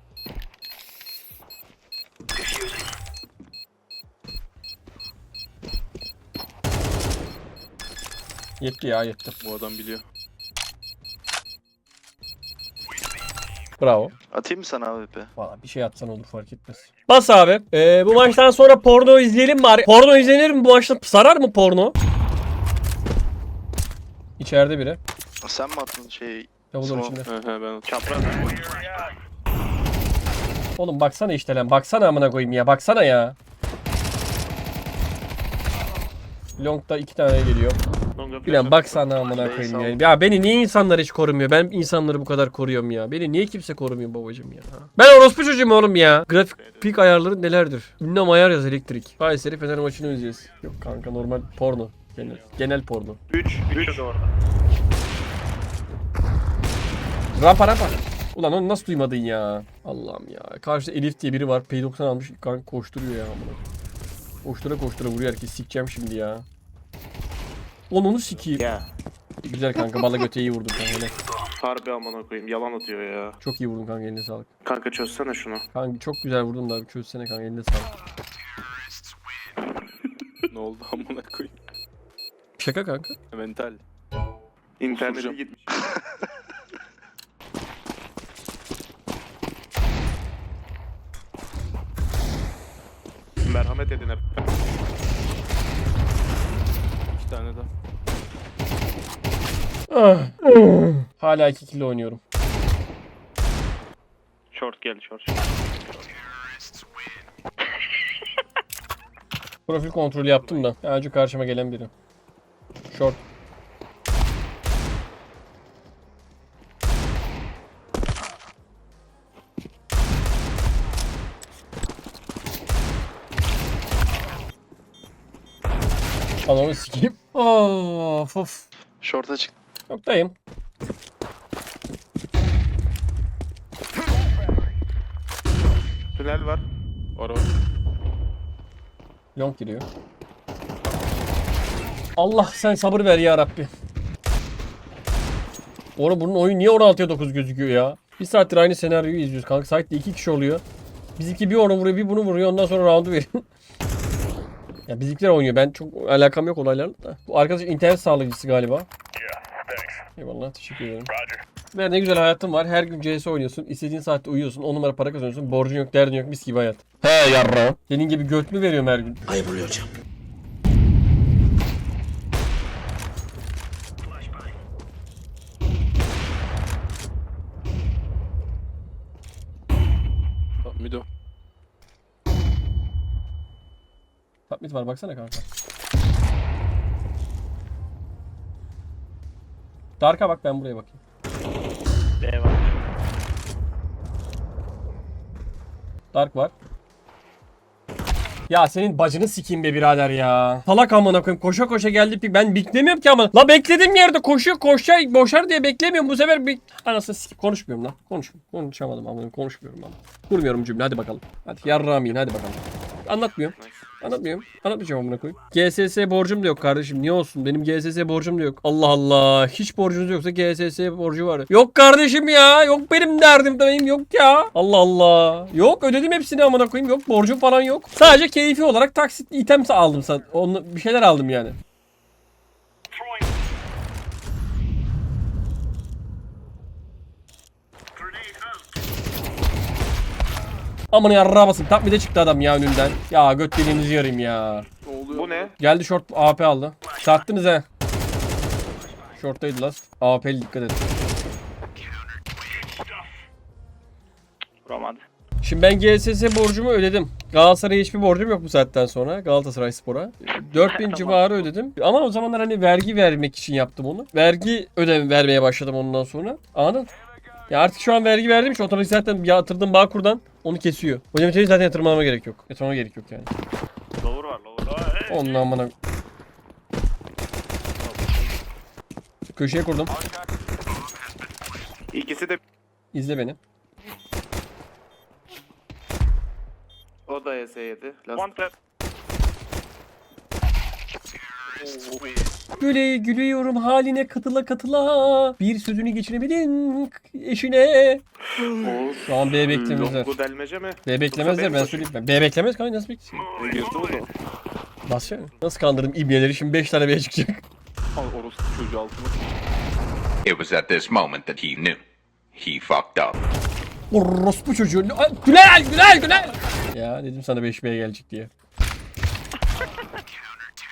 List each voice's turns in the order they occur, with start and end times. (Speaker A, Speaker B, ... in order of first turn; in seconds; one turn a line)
Speaker A: 8.6-9.4
Speaker B: 9.4-10.0
Speaker A: 13.8-14.1
Speaker C: 14.3-15.3
Speaker A: 15.4-22.0
Speaker A: 24.4-25.0
Speaker C: 25.4-27.2
Speaker A: 26.7-27.3
Speaker B: 27.3-27.9
Speaker D: 27.9-28.8
Speaker A: 30.8-33.4
Speaker A: 36.6-37.8
Speaker E: 38.2-39.7
Speaker A: 38.5-53.2
Speaker C: 39.3-40.0
Speaker E: 46.5-47.0
Speaker E: 53.3-54.1
Speaker D: 53.7-54.3
Speaker A: 57.4-63.6
Speaker A: 64.4-66.5
Speaker A: 67.9-68.7
Speaker B: 68.3-68.6
Speaker E: 68.6-68.9
Speaker A: 69.4-71.2
Speaker E: 71.6-73.4
Speaker A: 73.4-74.5
Speaker E: 74.7-75.6
Speaker A: 75.7-77.9
Speaker B: 80.5-81.5
Speaker A: 82.6-83.2
Speaker B: 83.3-83.8
Speaker E: 84.8-85.8
Speaker B: 84.9-85.4
Speaker E: 93.5-94.4
Speaker B: 97.2-97.7
Speaker A: 99.9-102.2
Speaker D: 104.5-105.5
Speaker A: 109.7-111.9
Speaker A: 112.9-113.2
Speaker A: 126.5-128.7
Speaker C: 129.0-129.5
Speaker A: 129.9-130.3
Speaker E: 136.2-136.7
Speaker B: 137.2-137.5
Speaker A: 139.4-139.9
Speaker A: 142.2-143.7
Speaker A: 146.0-150.6
Speaker A: 151.2-153.4
Speaker A: 154.9-158.9
Speaker A: 160.2-161.1
Speaker A: 161.7-169.8
Speaker B: 180.6-181.1
Speaker A: 184.5-185.4
Speaker A: 190.0-191.0
Speaker D: 192.2-192.8
Speaker A: 196.1-196.5
Speaker A: 198.5-231.6
Speaker E: 213.6-214.1
Speaker A: 240.9-244.7
Speaker B: 244.8-245.6
Speaker E: 245.1-245.6
Speaker A: 245.6-247.7
Speaker A: 249.2-250.9
Speaker D: 254.7-255.0
Speaker A: 255.4-266.9
Speaker D: 260.5-261.5
Speaker A: 267.5-273.3
Speaker D: 274.0-275.2
Speaker A: 275.1-275.7
Speaker B: 277.8-278.4
Speaker A: 279.4-279.9
Speaker E: 281.9-282.4
Speaker A: 282.9-283.4
Speaker E: 287.1-288.3
Speaker D: 288.1-288.5
Speaker B: 291.6-292.2
Speaker A: 292.6-298.0
Speaker E: 298.4-301.9
Speaker A: 299.1-300.1
Speaker A: 300.9-303.3
Speaker B: 303.4-304.1
Speaker A: 304.9-307.4
Speaker B: 308.0-309.2
Speaker F: 310.2-311.8
Speaker F: 312.4-313.2
Speaker A: 313.9-318.3